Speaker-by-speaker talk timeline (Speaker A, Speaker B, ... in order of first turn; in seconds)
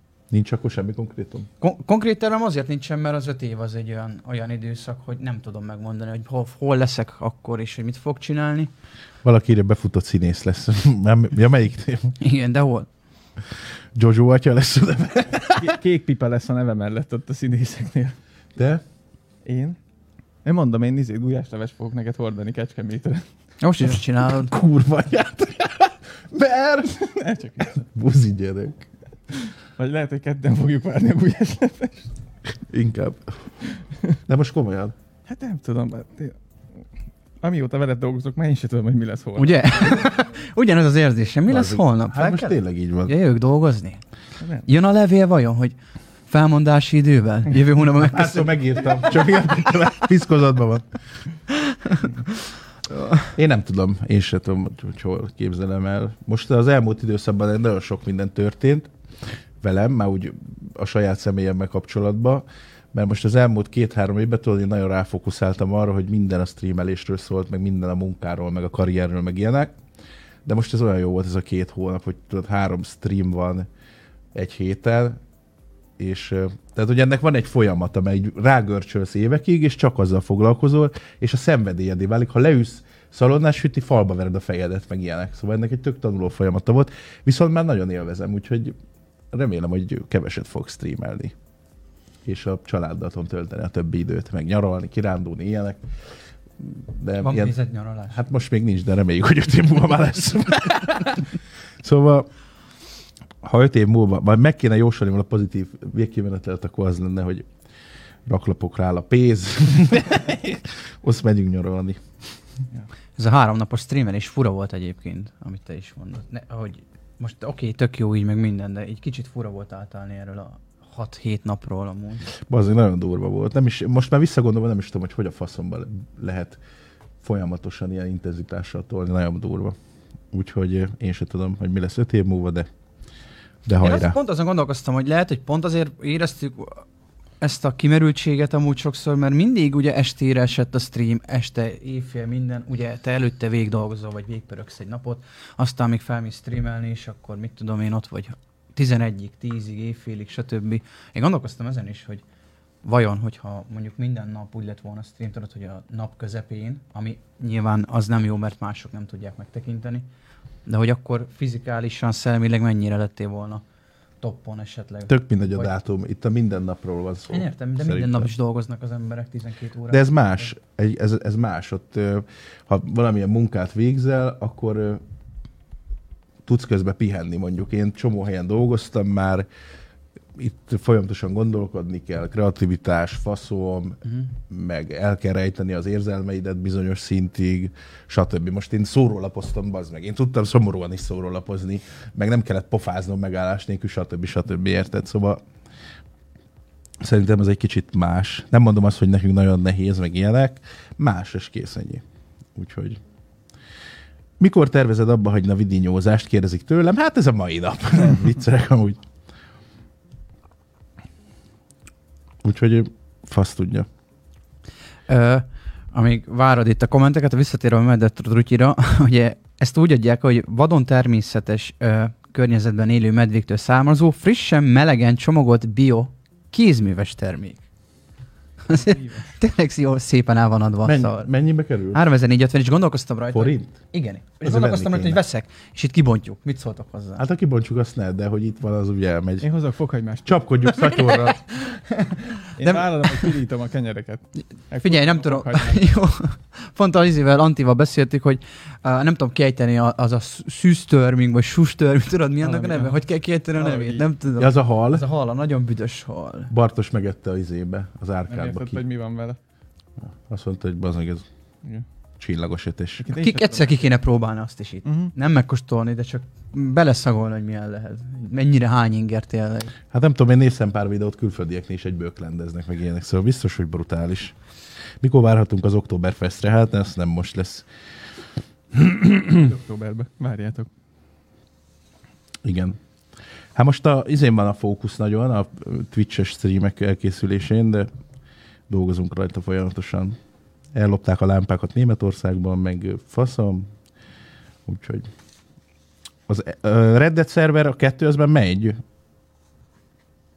Speaker A: 0.3-1.5, 9.2-12.2, 13.9-15.7, 18.6-18.8, 24.2-27.1, 27.6-28.9, 32.6-33.5, 34.3-34.9, 41.5-43.1, 48.0-50.9, 53.3-58.9, 59.6-69.7, 70.5-73.7, 74.3-75.2, 76.0-88.7, 89.3-91.3, 92.2-95.8, 96.6-97.5, 98.1-102.3, 103.4-107.5, 108.2-112.0, 122.3-126.6, 127.2-129.8, 130.3-132.7, 133.7-134.2, 165.1-168.3, 169.9-175.0, 176.4-179.5, 180.4-195.4, 197.0-202.0, 202.5-203.0, 204.4-209.0, 212.4-213.9, 230.8-232.0, 233.3-233.8, 234.4-235.2, 237.2-239.5, 240.2-241.4, 254.4-255.0, 256.5-258.8, 260.2-261.2, 262.2-263.1, 269.9-274.3, 275.0-277.6, 278.7-279.4, 282.4-282.8, 283.5-287.9, 288.7-290.2, 290.7-293.7, 294.6-295.1, 296.3-298.8
Speaker B: 1.6-8.7, 12.2-12.9, 23.6-24.5, 39.4-44.0, 44.6-45.8, 46.3-49.2, 51.6-52.1, 52.9-53.2, 97.2-98.2, 113.2-122.3, 133.8-136.8, 137.4-152.2, 152.8-160.1, 160.7-163.6, 164.2-165.7, 167.3-170.4, 215.1-227.6, 228.7-231.3, 231.9-237.2, 240.9-243.3, 244.8-256.5, 263.1-269.7
Speaker C: 15.6-18.2, 19.4-19.8, 20.4-23.2, 26.9-27.8, 29.8-32.1, 35.2-36.4, 37.4-40.2, 44.4-44.7, 228.7-229.4, 239.4-240.5, 242.6-245.9, 252.4-253.0, 253.5-254.0, 258.3-259.4, 263.0-263.8, 264.8-265.1, 279.3-280.7